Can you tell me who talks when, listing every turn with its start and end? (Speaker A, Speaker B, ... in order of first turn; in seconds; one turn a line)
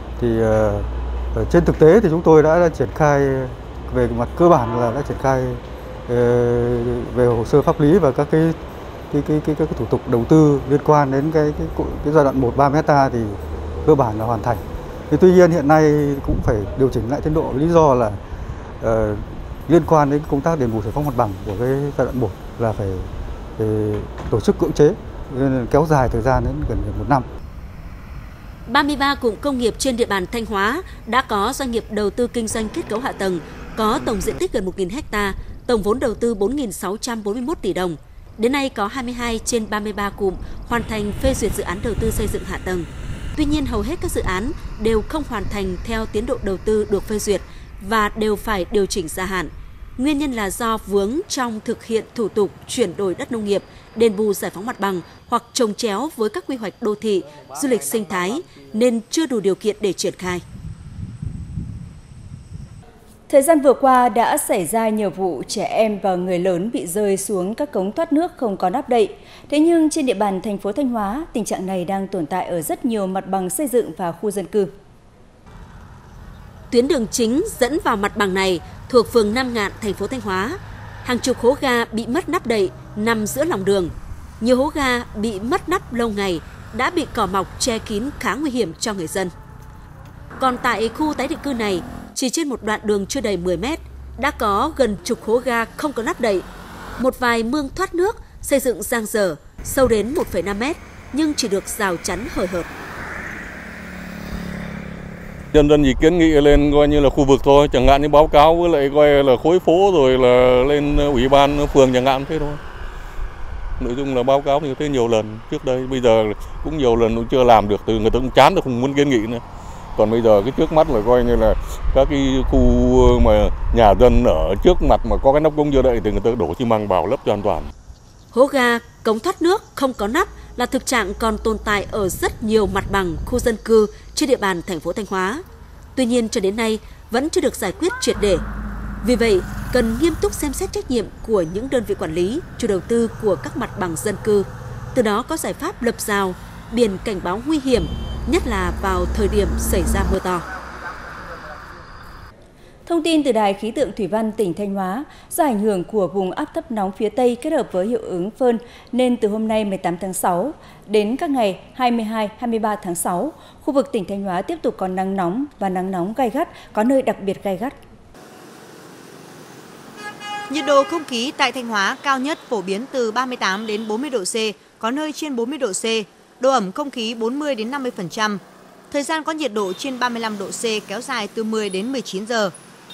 Speaker A: 0.2-8.6
Speaker A: 9.1-18.2
Speaker A: 18.8-27.3
Speaker B: 28.7-60.4
Speaker C: 63.3-74.7
Speaker B: 76.7-89.3
Speaker B: 90.4-96.5
Speaker B: 97.0-102.7
Speaker D: 105.5-112.6
Speaker D: 113.8-119.4
Speaker D: 120.0-127.7
Speaker B: 128.3-135.4
Speaker B: 136.0-138.4
Speaker B: 139.0-150.5
Speaker C: 152.9-167.8
Speaker E: 170.5-182.5